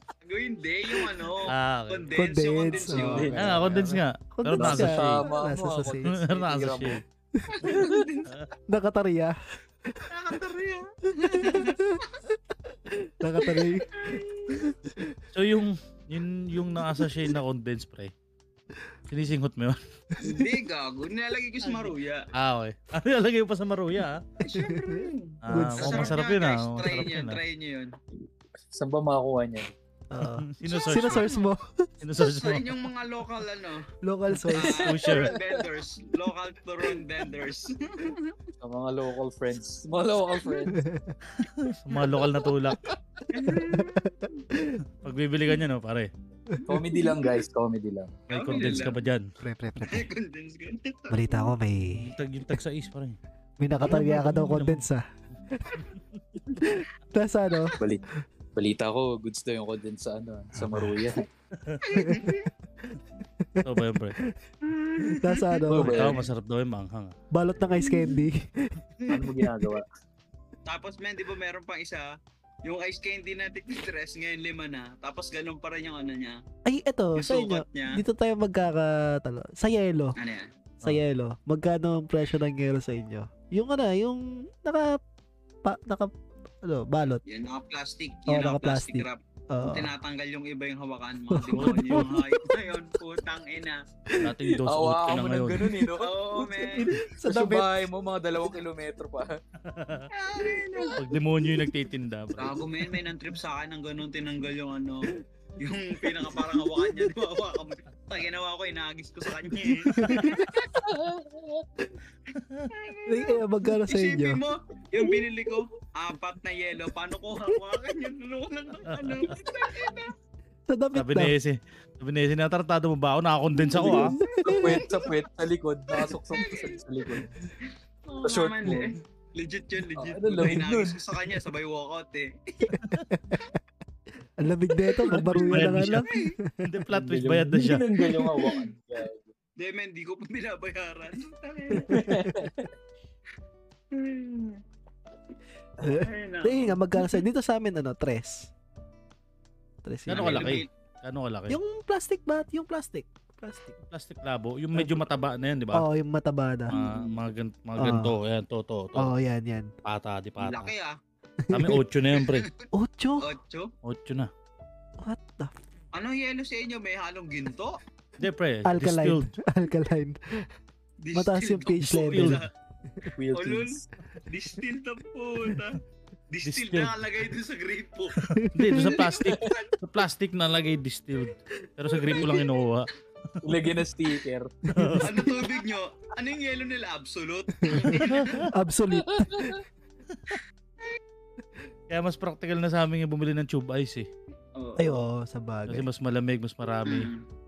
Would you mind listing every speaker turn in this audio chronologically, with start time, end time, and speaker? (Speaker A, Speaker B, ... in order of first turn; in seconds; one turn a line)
Speaker A: 0.2-3.4
Speaker B: 1.5-2.1
Speaker C: 2.1-6.2
Speaker D: 2.8-3.6
Speaker B: 3.3-5.2
Speaker D: 4.5-7.0
Speaker B: 6.1-7.0
Speaker C: 7.3-8.0
Speaker A: 7.5-8.3
Speaker D: 7.7-8.0
Speaker C: 8.7-9.3
Speaker A: 10.1-12.1
Speaker C: 11.2-15.2
Speaker A: 13.4-14.7
Speaker B: 15.3-18.1
Speaker C: 17.0-17.4
Speaker B: 19.1-19.8
Speaker C: 20.2-20.5
Speaker A: 20.2-22.3
Speaker B: 22.3-24.2
Speaker A: 24.4-27.9
Speaker C: 24.5-26.2
Speaker B: 25.4-27.4
Speaker D: 28.7-29.7
Speaker C: 30.1-31.9
Speaker B: 30.2-31.3
Speaker A: 30.6-31.4
Speaker B: 32.0-32.6
Speaker A: 32.2-33.8
Speaker C: 34.0-34.8
Speaker D: 34.5-35.7
Speaker A: 34.5-38.4
Speaker B: 34.8-35.3
Speaker D: 38.6-40.8
Speaker C: 40.7-41.2
Speaker B: 41.4-42.8
Speaker A: 43.3-44.0
Speaker C: 43.5-44.8
Speaker B: 45.0-46.1
Speaker C: 46.5-47.1
Speaker D: 46.6-48.2
Speaker A: 48.3-49.0
Speaker B: 48.3-49.3
Speaker C: 49.4-50.1
Speaker A: 49.8-51.5
Speaker C: 51.1-52.1
Speaker B: 52.0-53.2
Speaker C: 53.6-55.9
Speaker B: 53.8-54.8
Speaker B: 55.7-56.2
Speaker A: 56.5-56.8
Speaker C: 56.6-57.8
Speaker D: 57.8-58.0
Speaker D: 58.5-61.2
Speaker B: 60.5-61.0
Speaker B: 61.5-61.9
Speaker A: 61.8-62.5
Speaker C: 61.9-64.3
Speaker B: 63.6-64.2
Speaker A: 64.6-65.7
Speaker C: 65.0-66.1
Speaker D: 65.7-66.2
Speaker B: 65.8-67.1
Speaker C: 67.3-69.7
Speaker A: 67.8-68.2
Speaker D: 69.1-69.8
Speaker A: 70.7-72.1
Speaker A: 72.6-76.4
Speaker C: 76.6-80.2
Speaker A: 77.2-78.0
Speaker A: 80.2-80.5
Speaker C: 80.8-85.0
Speaker C: 85.6-87.2
Speaker A: 87.2-93.8
Speaker C: 88.3-89.9
Speaker C: 91.3-92.5
Speaker B: 91.5-92.1
Speaker C: 94.1-94.6
Speaker B: 94.2-95.7
Speaker D: 94.7-99.4
Speaker A: 96.0-96.9
Speaker C: 96.8-97.9
Speaker B: 99.6-100.1
Speaker A: 100.1-101.0
Speaker C: 100.4-101.0
Speaker B: 101.0-102.6
Speaker A: 102.4-110.8
Speaker C: 106.0-107.1
Speaker C: 109.8-110.7
Speaker B: 109.9-110.7
Speaker D: 110.8-111.7
Speaker B: 112.4-112.7
Speaker A: 112.7-120.1
Speaker C: 113.1-114.4
Speaker B: 118.9-119.3
Speaker C: 120.7-121.3
Speaker B: 120.9-124.2
Speaker D: 123.8-127.3
Speaker C: 123.8-124.8
Speaker A: 123.8-125.2
Speaker A: 126.3-126.8
Speaker A: 127.6-132.8
Speaker D: 128.2-128.9
Speaker D: 129.9-131.0
Speaker C: 132.7-133.5
Speaker B: 132.8-133.1
Speaker C: 134.4-136.7
Speaker A: 135.1-136.3
Speaker B: 135.2-136.1
Speaker B: 136.6-137.8
Speaker D: 136.9-139.3
Speaker A: 138.3-138.6
Speaker A: 139.6-142.1
Speaker C: 141.7-142.5
Speaker D: 141.9-142.7
Speaker A: 143.9-144.6
Speaker C: 145.8-148.5
Speaker A: 145.9-147.2
Speaker C: 149.8-150.6
Speaker B: 150.1-151.6
Speaker A: 150.1-150.7
Speaker C: 151.5-153.8
Speaker B: 153.8-155.8
Speaker C: 154.7-155.0
Speaker C: 155.7-156.8
Speaker B: 156.7-159.1
Speaker D: 156.8-157.1
Speaker C: 157.8-158.1
Speaker C: 158.9-159.7
Speaker B: 159.8-160.7
Speaker A: 160.4-161.0
Speaker C: 161.4-161.8
Speaker B: 161.5-162.5
Speaker A: 162.1-162.7
Speaker C: 162.7-163.3
Speaker A: 163.2-163.7
Speaker B: 163.8-164.3
Speaker C: 165.0-165.5
Speaker A: 165.9-167.8
Speaker B: 168.2-169.3
Speaker C: 168.7-170.5
Speaker A: 171.0-172.5
Speaker C: 171.1-173.1
Speaker B: 171.7-172.4
Speaker D: 173.0-173.8
Speaker A: 173.3-175.8
Speaker A: 176.3-178.2
Speaker B: 176.4-177.0
Speaker B: 178.2-183.4
Speaker C: 178.3-179.1
Speaker A: 178.7-179.7
Speaker D: 179.2-179.6
Speaker D: 183.4-184.5
Speaker C: 184.6-185.6
Speaker B: 184.7-185.3
Speaker A: 185.0-188.5
Speaker C: 187.6-189.6
Speaker B: 187.8-188.5
Speaker D: 188.9-189.6
Speaker B: 191.9-194.1
Speaker A: 194.6-195.0
Speaker C: 194.8-195.8
Speaker B: 195.7-197.1
Speaker A: 196.8-197.2